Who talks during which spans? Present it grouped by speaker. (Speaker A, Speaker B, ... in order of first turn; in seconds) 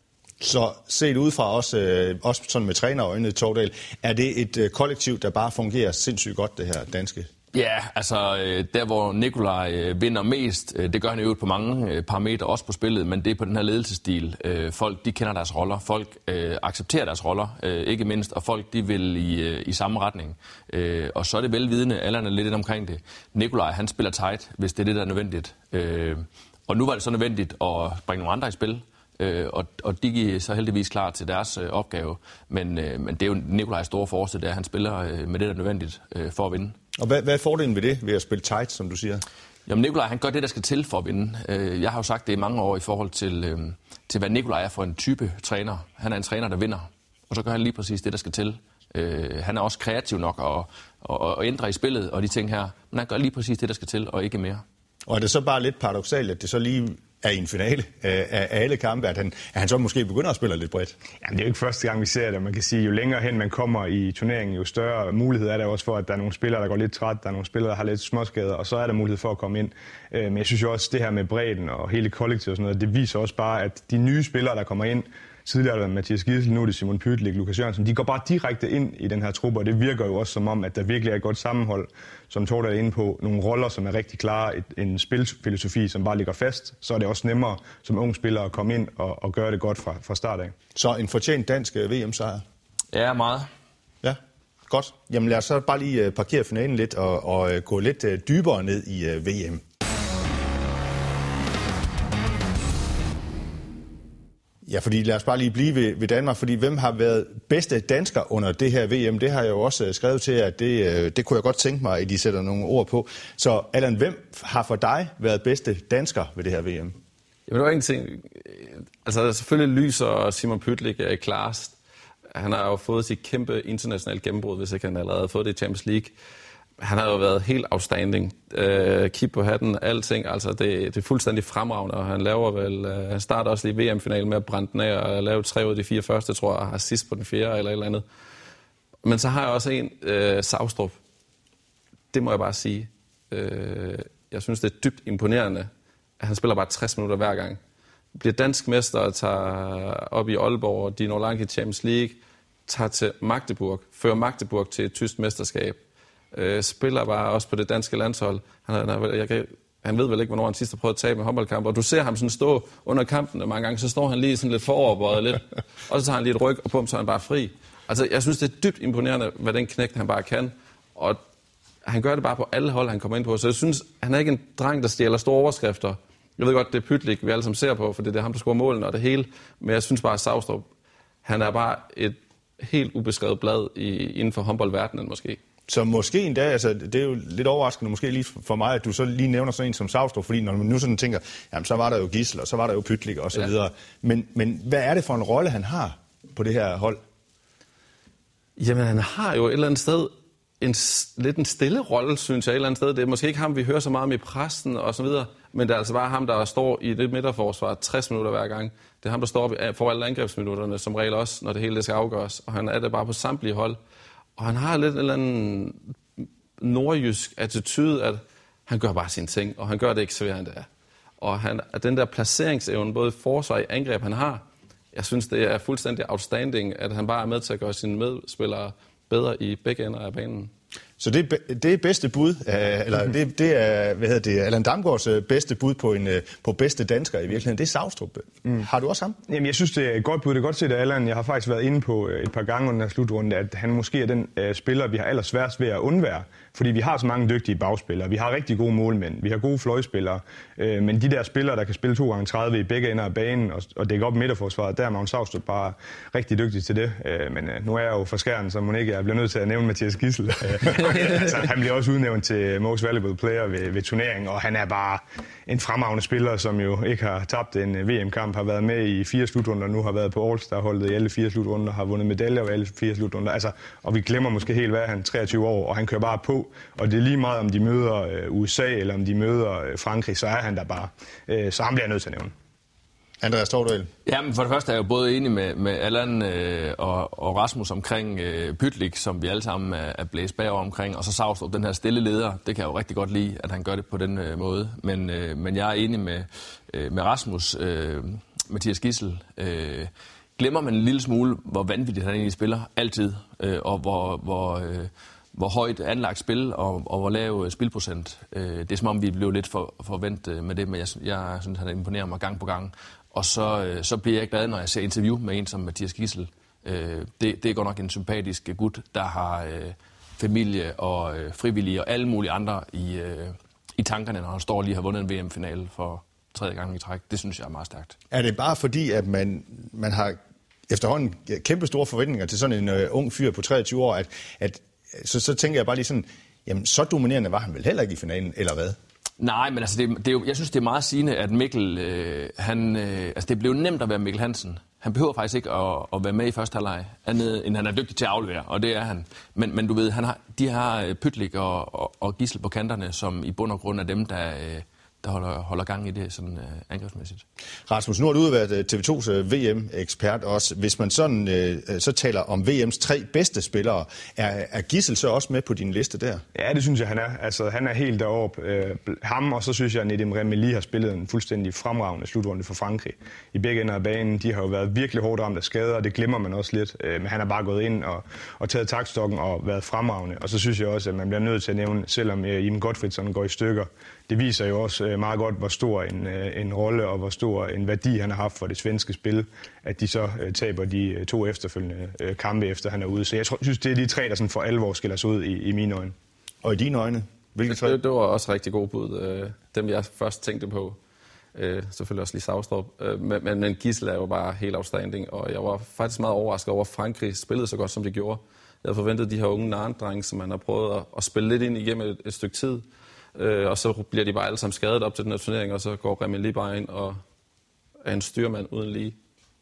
Speaker A: 0.4-7.3, 37.0-39.2, 55.1-61.0, 90.8-92.4, 94.0-99.6, 104.7-117.0, 185.7-197.0, 231.0-239.2, 283.2-283.9, 328.1-338.8, 357.7-366.2, 396.4-397.8
Speaker B: 7.5-36.8, 39.7-54.6, 92.9-93.5, 284.1-327.9, 339.2-357.2
Speaker C: 61.2-90.5, 239.3-282.3, 366.3-395.9
Speaker D: 117.5-121.8, 122.3-126.1, 126.8-138.0, 139.0-141.0, 142.1-147.6, 148.1-155.8, 156.3-171.2, 171.8-180.7, 181.2-185.4, 198.6-213.8, 214.4-215.8, 216.6-220.7, 221.2-230.5, 397.5-400.8, 401.3-417.0, 417.8-419.0